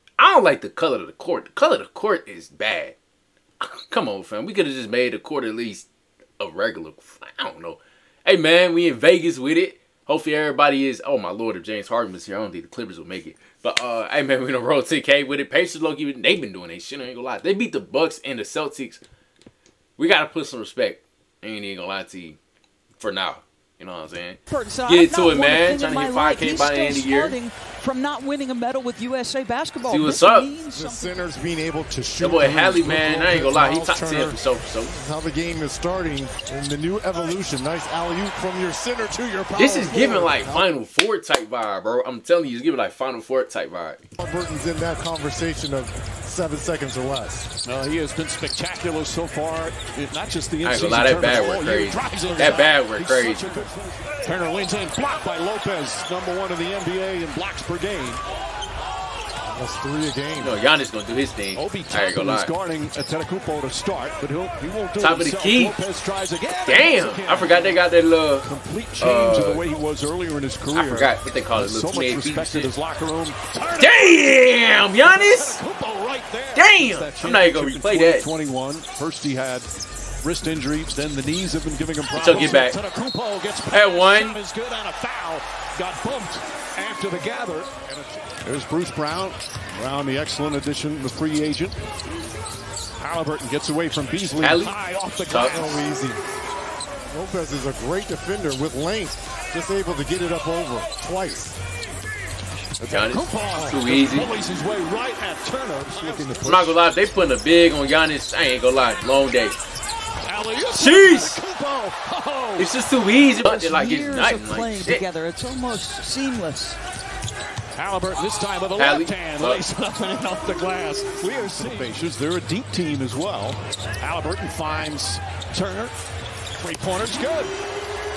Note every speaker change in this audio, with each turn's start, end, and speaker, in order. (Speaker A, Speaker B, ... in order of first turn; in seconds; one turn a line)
Speaker A: 0.2-3.0
Speaker A: 3.6-5.9
Speaker A: 6.4-19.0
Speaker A: 20.0-22.4
Speaker A: 23.0-27.4
Speaker B: 24.5-31.2
Speaker A: 29.9-30.5
Speaker C: 30.7-40.6
Speaker A: 32.2-35.0
Speaker A: 39.5-44.0
Speaker C: 44.2-47.5
Speaker D: 47.6-58.2
Speaker A: 50.6-53.7
Speaker C: 59.5-60.6
Speaker A: 60.4-62.5
Speaker D: 61.5-67.8
Speaker A: 65.0-65.8
Speaker A: 66.7-68.5
Speaker D: 68.4-74.2
Speaker A: 69.0-69.6
Speaker A: 70.7-72.7
Speaker A: 73.8-75.6
Speaker D: 75.0-79.7
Speaker A: 76.5-78.2
Speaker D: 80.2-91.8
Speaker A: 82.1-82.7
Speaker A: 83.7-84.4
Speaker D: 93.0-95.8
Speaker A: 94.4-94.7
Speaker A: 95.2-95.6
Speaker C: 95.5-96.2
Speaker C: 97.1-101.5
Speaker C: 102.8-103.2
Speaker A: 102.9-104.3
Speaker D: 103.1-106.7
Speaker C: 105.9-106.8
Speaker A: 106.4-109.6
Speaker D: 110.2-112.7
Speaker A: 110.7-111.4
Speaker A: 112.6-115.0
Speaker B: 113.4-116.8
Speaker D: 117.8-126.0
Speaker A: 118.8-119.6
Speaker D: 126.6-127.5